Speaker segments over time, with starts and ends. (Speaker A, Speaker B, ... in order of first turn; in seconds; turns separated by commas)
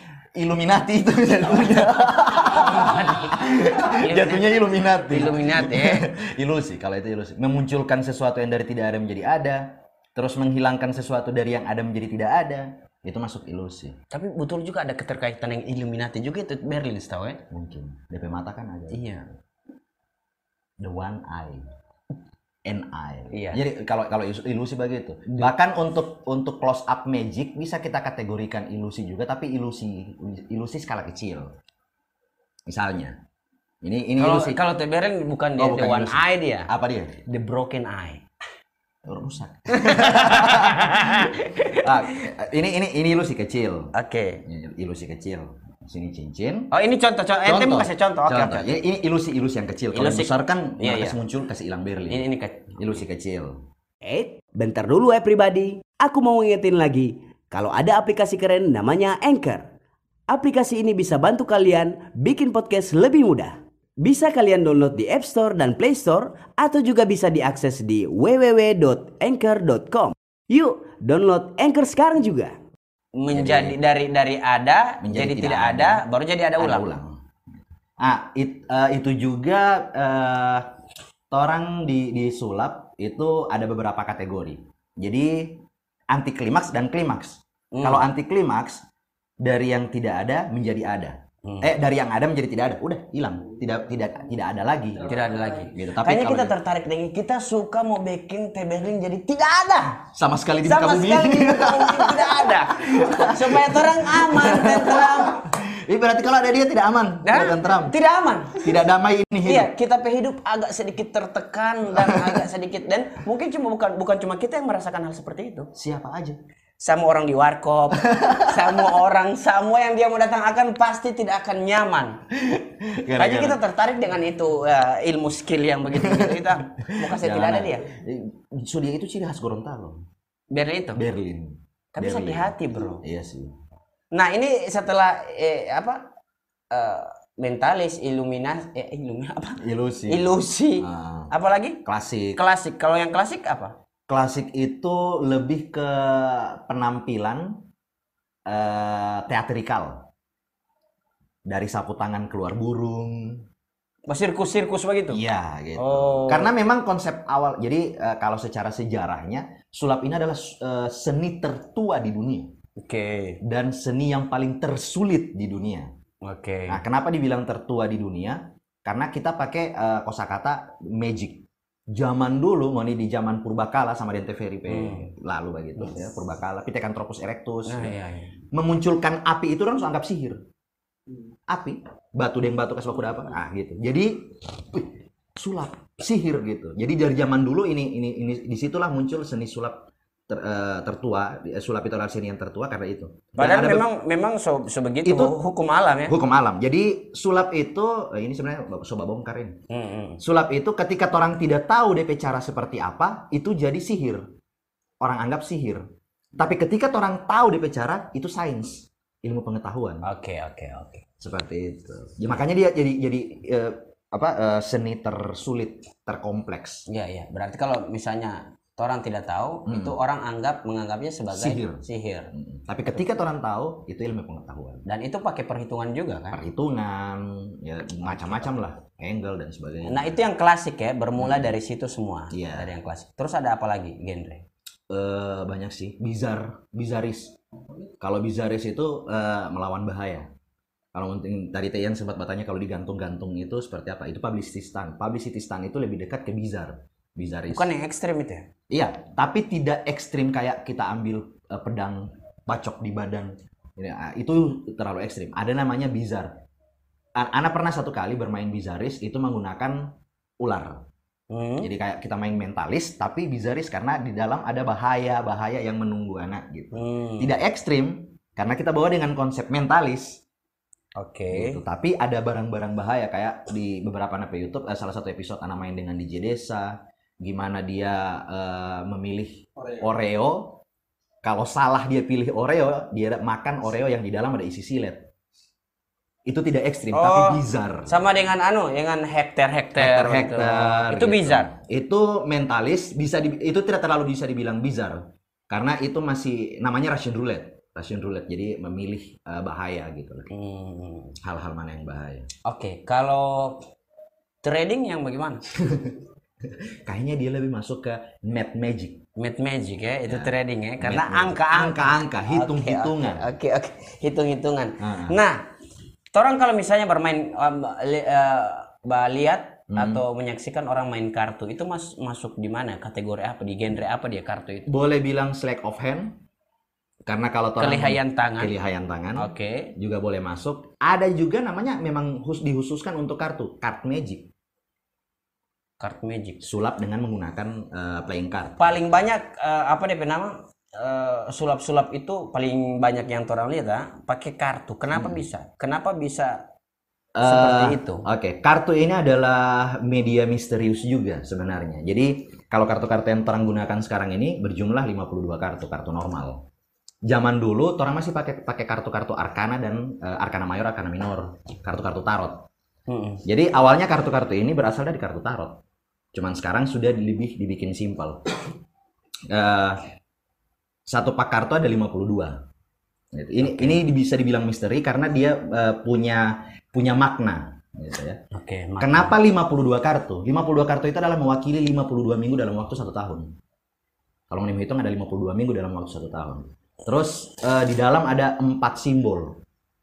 Speaker A: 0.3-14.0, Speaker B: 2.4-3.4, Speaker B: 4.0-6.1, Speaker B: 14.1-17.4, Speaker A: 17.5-19.0, Speaker B: 18.9-19.3, Speaker A: 20.8-21.6, Speaker A: 22.6-31.5, Speaker B: 23.3-23.6, Speaker A: 32.7-33.2, Speaker A: 33.8-34.6, Speaker B: 34.2-36.7, Speaker A: 35.6-37.2, Speaker B: 37.3-38.2, Speaker A: 39.0-43.9, Speaker B: 39.7-42.3, Speaker B: 43.9-44.4, Speaker A: 44.4-46.7, Speaker B: 46.7-48.8, Speaker A: 47.4-53.6, Speaker B: 49.9-51.2, Speaker B: 52.1-53.0, Speaker C: 54.0-59.7, Speaker C: 60.3-72.5, Speaker B: 73.2-76.9, Speaker A: 73.3-73.8, Speaker A: 75.0-76.0, Speaker A: 76.6-77.2, Speaker A: 78.0-80.7, Speaker A: 81.3-88.8, Speaker B: 87.7-88.1, Speaker A: 89.4-95.1, Speaker B: 91.4-91.7, Speaker B: 95.0-100.1, Speaker A: 95.7-96.5, Speaker A: 100.2-107.9, Speaker B: 100.6-105.4, Speaker B: 107.2-108.8, Speaker A: 108.5-109.7, Speaker B: 109.4-115.7, Speaker A: 111.9-112.4, Speaker A: 115.7-116.4, Speaker B: 116.8-122.2, Speaker A: 117.9-119.0, Speaker A: 122.3-123.6, Speaker B: 123.2-127.9, Speaker A: 125.9-130.0, Speaker B: 130.5-131.0, Speaker A: 130.9-133.5, Speaker B: 131.9-133.0, Speaker B: 134.1-136.0, Speaker B: 136.7-141.8, Speaker A: 139.6-141.3, Speaker A: 141.8-142.4, Speaker B: 142.3-143.8, Speaker A: 144.1-147.6, Speaker A: 148.5-150.0, Speaker A: 151.5-153.4, Speaker B: 154.1-155.2, Speaker A: 155.1-162.5, Speaker B: 155.8-156.5, Speaker B: 162.8-163.4, Speaker A: 163.4-165.9, Speaker B: 166.2-166.8, Speaker A: 166.7-177.9, Speaker B: 174.7-175.1, Speaker B: 177.7-178.4, Speaker A: 178.5-180.4, Speaker A: 181.5-193.9, Speaker B: 193.4-196.1, Speaker A: 195.0-195.4, Speaker A: 196.1-199.6, Speaker B: 199.7-200.2, Speaker A: 200.2-204.2, Speaker A: 205.0-205.8, Speaker A: 206.4-210.1, Speaker B: 210.0-211.0, Speaker A: 211.2-216.8, Speaker B: 216.9-222.3, Speaker A: 219.7-220.0, Speaker A: 221.3-221.8, Speaker A: 222.3-224.8, Speaker B: 224.8-226.4, Speaker A: 226.3-230.1, Speaker B: 228.0-228.6, Speaker B: 229.8-234.4, Speaker A: 231.2-231.6, Speaker A: 232.3-232.7, Speaker A: 234.9-237.3, Speaker A: 238.0-240.3, Speaker A: 240.9-247.7, Speaker B: 247.5-248.5, Speaker A: 248.7-256.3, Speaker A: 257.1-260.8, Speaker B: 261.3-261.7, Speaker A: 261.6-270.2, Speaker B: 266.7-267.4, Speaker B: 271.0-271.6, Speaker A: 271.3-280.6, Speaker A: 281.2-285.1, Speaker A: 286.2-288.1, Speaker B: 286.9-291.5, Speaker A: 289.8-300.3, Speaker B: 300.3-301.2, Speaker A: 301.2-302.3, Speaker B: 302.4-303.6, Speaker B: 304.4-305.4, Speaker A: 305.6-309.0, Speaker B: 309.2-315.4, Speaker A: 310.1-313.3, Speaker A: 314.8-315.2, Speaker B: 316.1-324.7, Speaker A: 319.7-320.0, Speaker A: 324.7-326.2, Speaker A: 327.1-334.3, Speaker B: 327.6-328.5, Speaker B: 329.1-329.7, Speaker B: 335.8-336.4, Speaker A: 336.4-339.0, Speaker B: 338.6-346.4, Speaker A: 344.9-345.2, Speaker A: 347.1-356.4, Speaker B: 347.2-348.1, Speaker A: 357.0-362.5, Speaker B: 362.9-363.2, Speaker A: 363.2-365.6, Speaker A: 366.1-368.2, Speaker A: 369.3-369.8, Speaker A: 370.9-372.4, Speaker A: 373.1-378.2, Speaker B: 373.4-373.8, Speaker B: 378.3-379.1, Speaker A: 378.8-383.3, Speaker A: 384.3-389.4